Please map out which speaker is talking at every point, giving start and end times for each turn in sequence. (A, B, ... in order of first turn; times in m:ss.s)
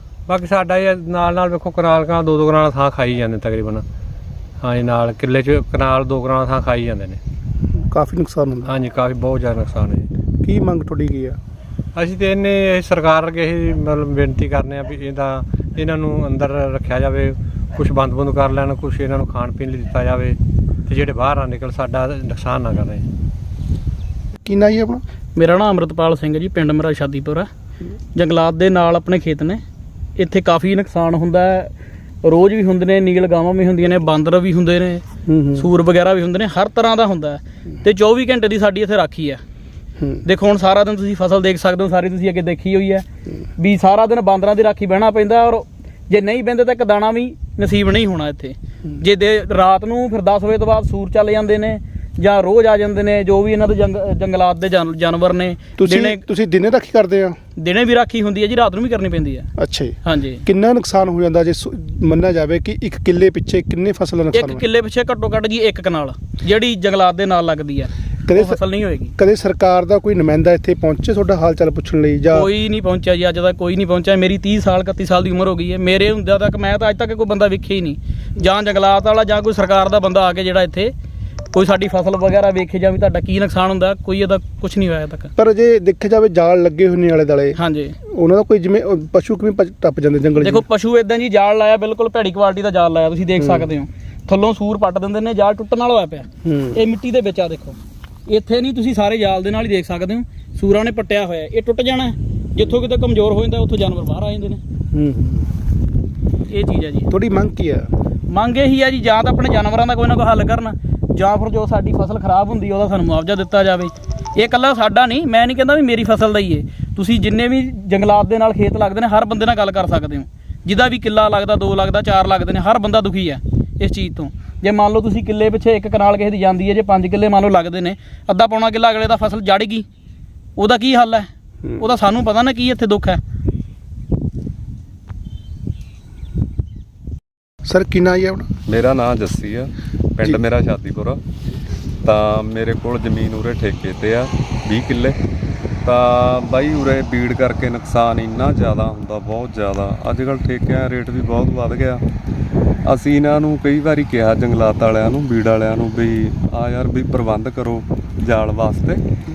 0:00.3-0:03.8 A
0:04.6-0:07.2 A
0:07.9-0:08.7 B
0:08.6-0:10.1 A
0:10.4-0:11.4 B
0:11.9-0:23.1 A
0:24.4-0:25.0 B
0:25.4-0:27.5 C
0:28.1-0:29.6 C
0:30.2-0:31.7 C
0:32.2-0:35.0 C
0:35.2-0:35.7 B
0:35.6-0:39.4 C
0:40.2-0:43.0 C
0:43.6-0:56.2 C
0:55.8-0:57.4 B
0:57.6-0:59.5 C
0:59.6-1:04.6 B
1:00.0-1:00.4 C
1:04.3-1:09.1 C
1:08.3-1:08.6 B
1:09.2-1:12.5 B
1:12.3-1:20.9 C
1:21.5-1:25.3 C
1:25.4-1:27.6 B
1:27.6-1:27.9 C
1:28.1-1:30.6 B
1:30.4-1:44.6 C
1:33.4-1:33.7 B
1:36.4-1:36.8 B
1:44.9-1:45.5 B
1:46.5-1:47.1 C
1:47.1-1:47.9 B
1:48.3-2:09.8 C
2:10.6-2:11.3 C
2:11.8-2:13.2 C
2:17.6-2:18.5 B
2:18.7-2:21.2 D
2:22.0-2:25.2 D
2:25.8-2:32.0 D
2:32.8-2:39.0 D